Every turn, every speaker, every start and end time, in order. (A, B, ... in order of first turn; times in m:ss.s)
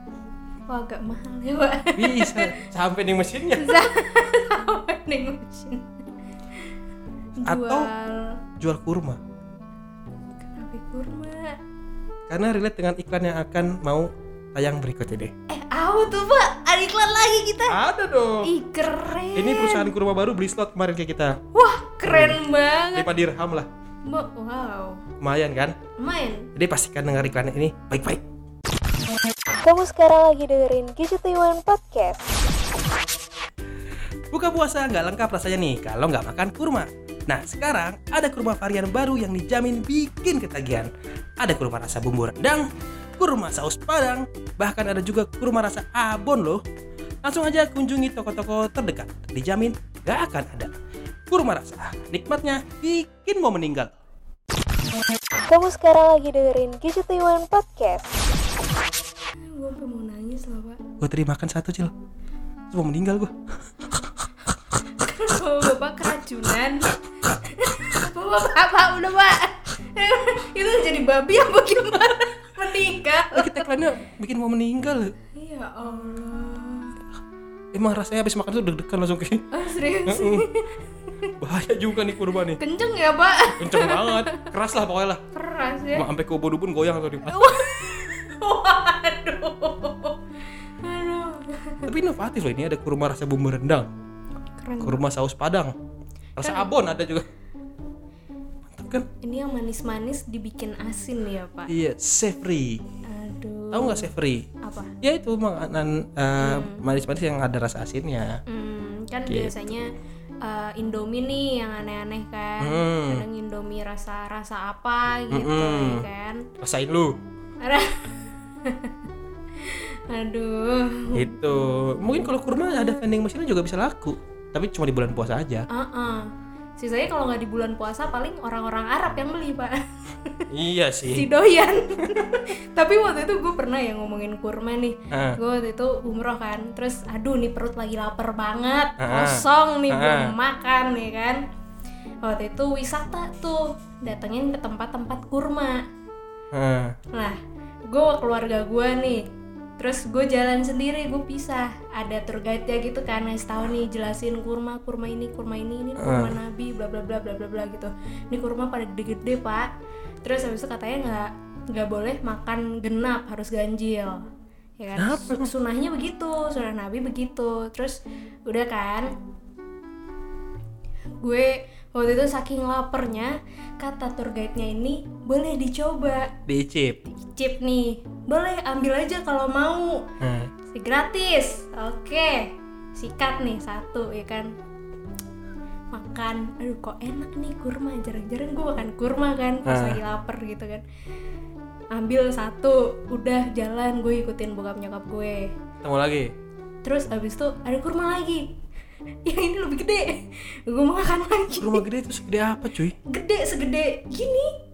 0:00.7-0:02.6 A
0:02.0-0:03.8 B
0:03.6-0:06.0 A
0:07.4-0:07.9 B
0:07.4-0:08.4 A
0:08.6-0:09.2 B
0:10.4-0:11.6 A
0:12.3-0:15.3 B
0:15.5-0:17.8 A
0:17.7-0:18.5 B
0:18.4-0:19.9 A
0:19.3-0:21.4 B
0:21.5-0:23.1 A
0:22.1-0:22.4 B
0:22.9-0:23.7 B
0:24.0-0:25.0 A
0:25.2-0:25.8 B
0:26.0-0:26.5 A
0:26.6-0:28.2 B
0:29.6-0:32.2 C
0:29.8-0:30.8 A
0:34.3-0:46.6 B
0:47.2-0:50.7 B
0:51.3-0:53.9 B
0:55.5-0:58.0 A
0:57.6-0:58.0 C
0:59.5-1:00.8 A
1:01.0-1:01.9 B
1:02.7-1:03.3 B
1:05.0-1:13.6 A
1:13.3-1:15.1 B
1:15.4-1:17.0 A
1:17.7-1:19.4 B
1:19.5-1:21.3 A
1:20.0-1:20.5 B
1:21.4-1:22.6 B
1:22.6-1:24.4 A
1:23.6-1:25.2 B
1:25.3-1:26.1 A
1:25.9-1:27.6 B
1:27.2-1:30.2 A
1:30.8-1:31.9 A
1:31.8-1:33.9 B
1:34.6-1:35.0 A
1:34.8-1:35.7 B
1:36.4-1:37.3 B
1:36.4-1:36.7 A
1:38.7-1:39.0 B
1:39.2-1:41.7 A
1:41.7-1:42.8 B
1:43.0-1:44.1 A
1:43.7-1:44.4 B
1:44.6-1:44.9 A
1:45.0-1:48.4 B
1:46.4-1:46.8 A
1:48.5-1:49.9 A
1:49.3-1:49.7 B
1:50.4-1:56.5 A
1:52.6-1:53.2 B
1:55.3-1:56.1 B
1:56.6-1:57.2 B
1:57.6-1:59.0 A
1:59.6-2:01.4 A
2:01.1-2:05.7 B
2:02.3-2:03.0 A
2:05.7-2:10.5 A
2:10.5-2:11.3 B
2:11.1-2:21.4 A
2:15.1-2:15.4 B
2:19.0-2:20.3 B
2:22.2-2:25.8 A
2:26.5-2:26.9 B
2:27.1-2:29.2 A
2:29.8-2:39.7 A
2:36.0-2:36.4 B
2:40.2-2:44.2 A
2:44.8-2:49.1 A
2:45.0-2:45.5 B
2:51.2-2:56.3 A
2:56.5-2:57.0 B
2:57.0-3:00.0 A
3:00.2-3:00.5 B
3:00.7-3:04.5 A
3:05.9-3:10.8 A
3:09.6-3:10.0 B
3:11.9-3:15.5 A
3:15.8-3:16.3 B
3:16.8-3:18.5 A
3:19.2-3:21.8 A
3:21.6-3:23.0 B
3:23.0-3:24.5 A